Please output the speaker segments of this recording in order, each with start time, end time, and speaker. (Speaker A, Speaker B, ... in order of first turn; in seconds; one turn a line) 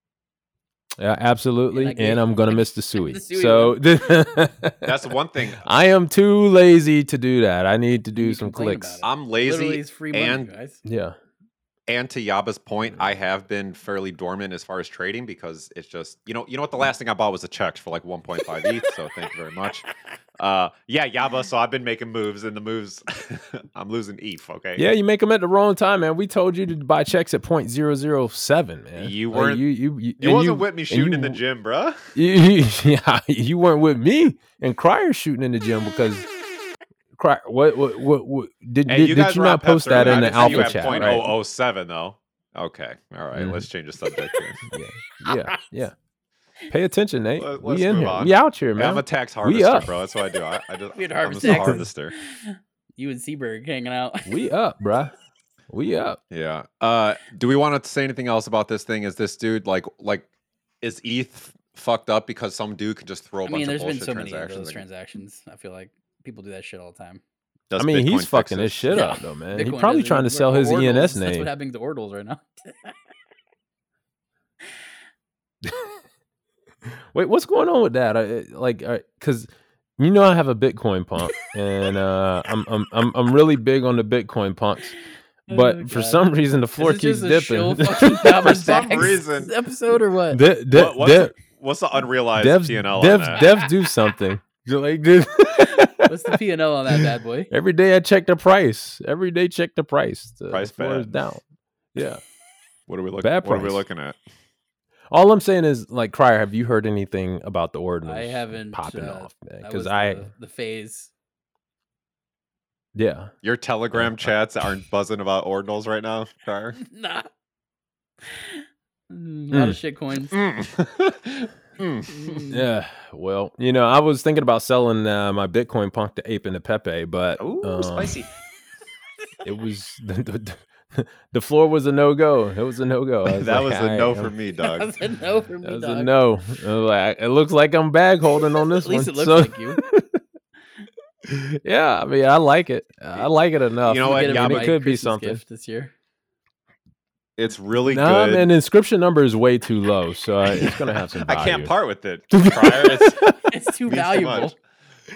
Speaker A: 1.0-5.0
Speaker B: 1.7-4.2
Speaker C: 4.8-5.7
Speaker A: 5.6-9.0
Speaker B: 8.2-10.8
Speaker C: 9.0-10.5
Speaker A: 10.8-11.2
Speaker C: 11.9-19.9
Speaker C: 20.4-24.9
Speaker A: 24.8-31.4
Speaker C: 29.0-29.7
Speaker C: 30.2-32.1
Speaker A: 32.1-36.3
Speaker A: 37.2-41.3
Speaker C: 38.9-44.6
Speaker B: 39.9-41.3
Speaker A: 43.3-43.7
Speaker A: 44.7-45.9
Speaker B: 45.3-45.6
Speaker A: 46.7-50.0
Speaker C: 47.4-52.1
Speaker B: 50.9-54.4
Speaker A: 51.5-51.8
Speaker A: 54.3-55.1
Speaker A: 55.7-56.2
Speaker C: 56.3-60.3
Speaker C: 60.8-64.8
Speaker B: 63.5-67.2
Speaker C: 67.7-69.1
Speaker A: 67.8-71.5
Speaker B: 68.9-73.0
Speaker A: 75.6-75.9
Speaker A: 76.9-85.0
Speaker A: 85.5-88.6
Speaker B: 85.5-86.2
Speaker B: 86.8-90.4
Speaker C: 88.4-89.5
Speaker A: 90.3-91.3
Speaker C: 90.7-93.4
Speaker A: 92.4-96.1
Speaker B: 93.3-93.7
Speaker B: 95.6-97.5
Speaker A: 97.0-102.2
Speaker C: 100.5-101.2
Speaker C: 102.9-104.2
Speaker A: 103.2-103.8
Speaker A: 105.1-110.3
Speaker B: 108.0-111.1
Speaker A: 113.0-113.3
Speaker C: 113.4-116.8
Speaker A: 113.9-114.3
Speaker B: 116.8-117.3
Speaker B: 118.2-120.4
Speaker A: 119.5-119.8
Speaker C: 120.3-122.4
Speaker B: 122.1-122.7
Speaker A: 122.5-128.2
Speaker C: 127.4-128.3
Speaker A: 129.4-134.3
Speaker C: 133.3-134.9
Speaker B: 134.6-136.1
Speaker A: 135.6-140.2
Speaker B: 138.8-139.8
Speaker A: 141.3-145.4
Speaker C: 143.9-144.7
Speaker B: 144.0-145.9
Speaker C: 147.4-148.5
Speaker A: 147.9-151.7
Speaker C: 150.5-153.2
Speaker A: 152.3-153.3
Speaker B: 153.5-154.6
Speaker C: 153.9-154.6